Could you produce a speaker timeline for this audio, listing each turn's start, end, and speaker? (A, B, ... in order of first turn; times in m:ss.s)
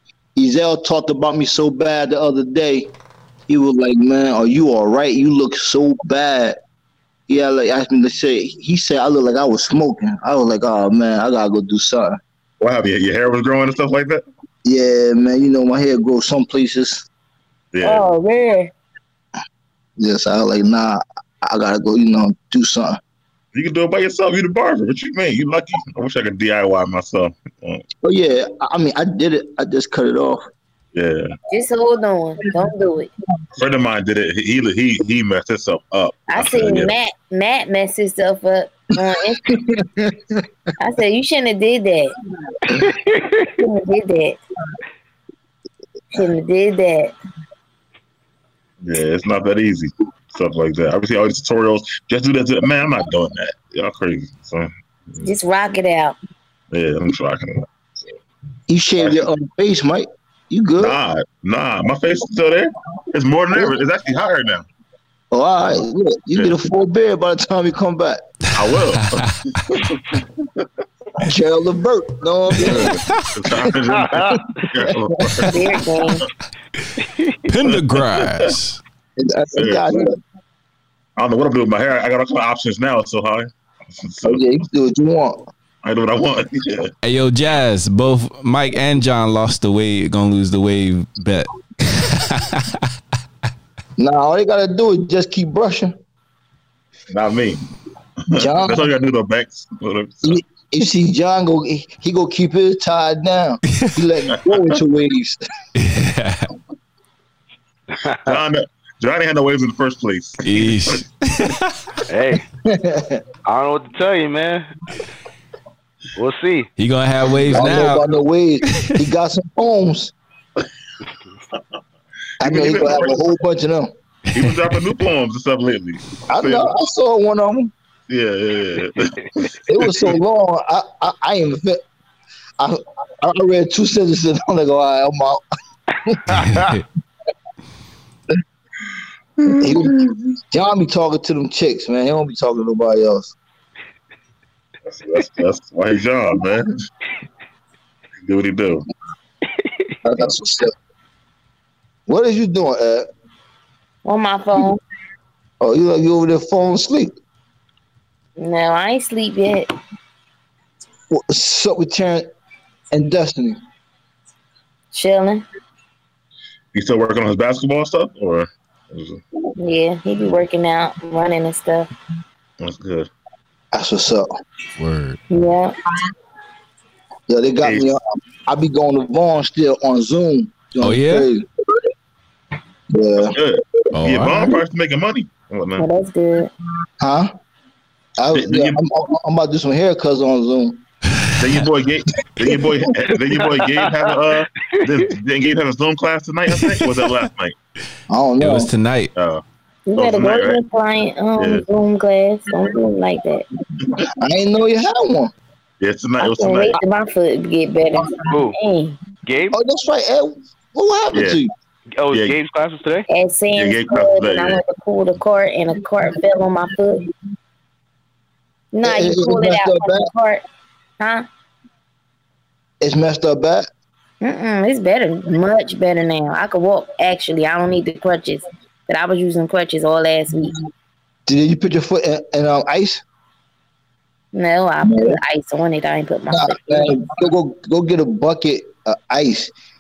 0:00.4-0:02.9 A
0:03.5-0:06.6 A
0:07.3-0:12.2 A
0:12.6-0:14.2 B
0:14.6-0:17.0 A
0:17.7-0:18.0 B
0:17.8-0:18.7 C
0:20.0-0:23.0 A
0:23.5-0:27.8 B
0:28.0-0:30.4 A
0:30.9-0:31.3 B
0:31.5-0:33.1 C
0:33.6-0:36.9 B
0:36.3-0:39.5 C
0:39.4-0:40.4 A
0:40.8-0:42.1 C
0:42.8-0:43.3 D
0:43.5-0:44.4 C
0:46.1-0:47.1 C
0:48.8-0:55.2 B
0:55.2-0:56.2 C
0:56.7-0:58.1 B
0:58.7-1:01.0 A
1:00.8-1:04.6 B
1:05.3-1:08.2 A
1:08.5-1:10.7 B
1:09.0-1:09.3 E
1:11.2-1:13.0 A
1:12.6-1:13.3 E
1:12.6-1:15.6 B
1:15.5-1:16.2 C
1:17.5-1:18.8 E
1:17.6-1:18.5 B
1:19.2-1:20.2 A
1:19.5-1:19.9 B
1:21.2-1:24.4 B
1:24.2-1:25.5 A
1:25.8-1:26.9 B
1:27.0-1:32.8 E
1:34.0-1:36.0 A
1:37.1-1:37.7 B
1:38.2-1:40.4 B
1:38.3-1:38.9 A
1:40.2-1:45.4 A
1:45.8-1:46.5 E
1:48.2-1:51.0 B
1:50.4-1:51.7 E
1:52.1-1:52.4 D
1:52.6-1:53.2 A
1:53.4-1:54.7 D
1:56.2-1:56.7 D
1:56.8-1:58.0 E
1:57.4-2:00.1 A
1:58.7-1:58.9 E
2:02.4-2:03.9 A
2:02.4-2:03.2 B
2:04.3-2:04.6 E
2:04.3-2:06.7 B
2:06.3-2:07.7 A
2:08.1-2:10.1 B
2:09.7-2:11.8 A
2:12.6-2:15.4 A
2:16.0-2:16.7 A
2:16.3-2:16.8 E
2:19.4-2:20.1 B
2:19.5-2:23.3 A
2:24.9-2:26.7 B
2:28.2-2:28.8 B
2:30.0-2:30.7 A
2:32.1-2:33.1 A
2:34.0-2:34.8 C
2:35.6-2:37.1 A
2:38.4-2:39.7 C
2:41.1-2:42.3 A
2:42.9-2:43.6 A
2:44.9-2:45.4 C
2:46.7-2:49.2 B
2:49.6-2:51.9 C
2:52.6-2:53.1 B
2:53.7-2:54.3 A
2:54.8-2:55.2 E
2:55.3-2:55.7 C
2:57.3-3:01.4 A
2:57.6-2:57.9 B
3:00.8-3:01.3 E
3:02.9-3:03.4 A
3:03.2-3:05.8 B
3:03.9-3:04.5 E
3:05.8-3:06.5 C
3:07.0-3:07.3 A
3:08.2-3:10.8 A
3:08.3-3:08.8 B
3:11.4-3:17.6 B
3:16.8-3:17.1 E
3:18.1-3:18.7 A
3:18.4-3:19.1 E
3:19.2-3:19.4 B
3:19.9-3:23.4 C
3:20.0-3:20.6 B
3:21.4-3:21.6 B
3:23.8-3:24.1 B
3:24.2-3:25.3 A
3:25.8-3:26.8 B
3:26.2-3:29.0 C
3:28.2-3:28.5 D
3:29.2-3:29.6 D
3:29.5-3:31.5 A
3:31.1-3:31.4 B
3:32.0-3:33.1 D
3:32.1-3:32.4 B
3:33.1-3:37.0 C
3:33.5-3:34.6 B
3:38.7-3:40.4 C
3:38.8-3:40.1 A
3:41.0-3:41.2 C
3:42.8-3:43.7 A
3:44.2-3:50.6 C
3:51.3-3:53.0 A
3:54.3-3:57.2 C
3:54.8-3:55.2 A
3:56.3-3:59.5 A